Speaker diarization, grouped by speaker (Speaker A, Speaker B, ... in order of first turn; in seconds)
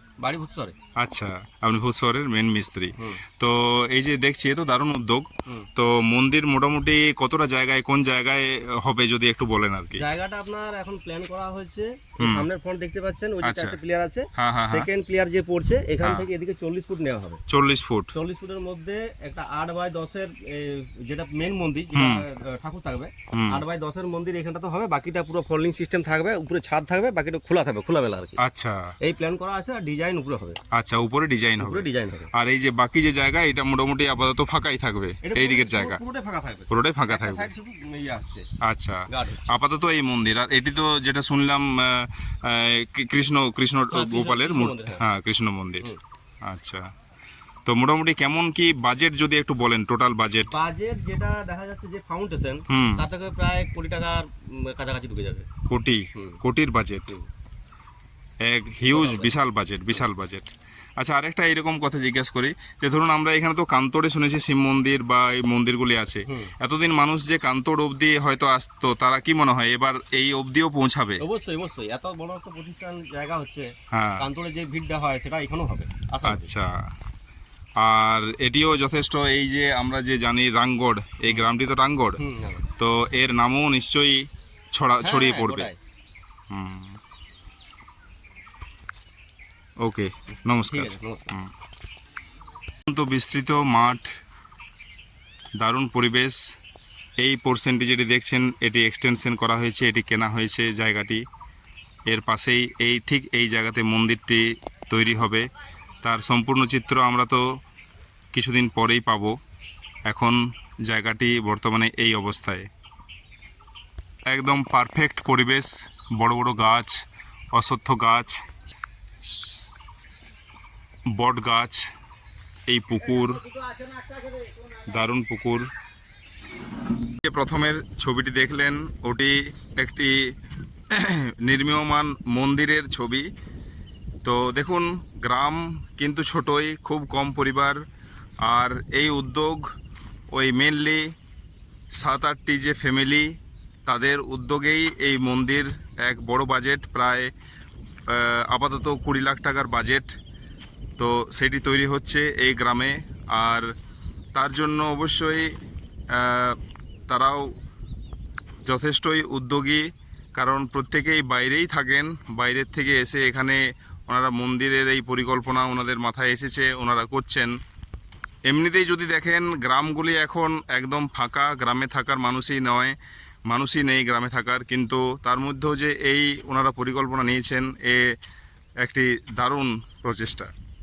Speaker A: 0.2-0.8, 10.0-17.4, 18.1-28.4, 29.0-30.6, 31.6-32.3, 35.2-38.5, 39.1-39.5, 43.9-45.0, 50.5-55.5, 56.1-56.4, 58.9-59.3, 71.2-76.5, 82.2-82.7, 85.0-85.8, 90.5-91.3
Speaker B: 1.0-10.1, 12.2-12.5, 13.4-13.8, 14.3-14.9, 16.0-16.3, 17.5-18.1, 21.9-22.2, 23.3-23.6, 28.4-28.9, 30.7-36.0, 36.7-37.5, 38.6-45.9, 46.4-46.8, 47.7-50.5, 52.7-53.1, 55.7-57.2, 58.4-71.2, 73.9-74.3, 76.2-76.7, 77.8-82.2, 82.8-85.7, 86.5-87.0, 89.8-91.5, 92.9-94.1, 95.6-96.4, 97.2-101.2, 102.1-105.5, 106.0-107.4, 108.3-109.3, 110.1-112.7, 114.3-117.0, 117.5-118.4, 121.1-121.8, 122.7-123.5, 124.8-125.7, 127.2-130.3, 130.9-133.3, 134.2-137.8, 138.4-139.7, 140.3-141.1, 142.0-143.3, 143.9-147.3, 148.1-150.1, 151.0-153.7, 154.3-155.6, 156.1-157.5, 158.7-167.5, 168.5-172.9, 173.5-178.2, 178.8-180.5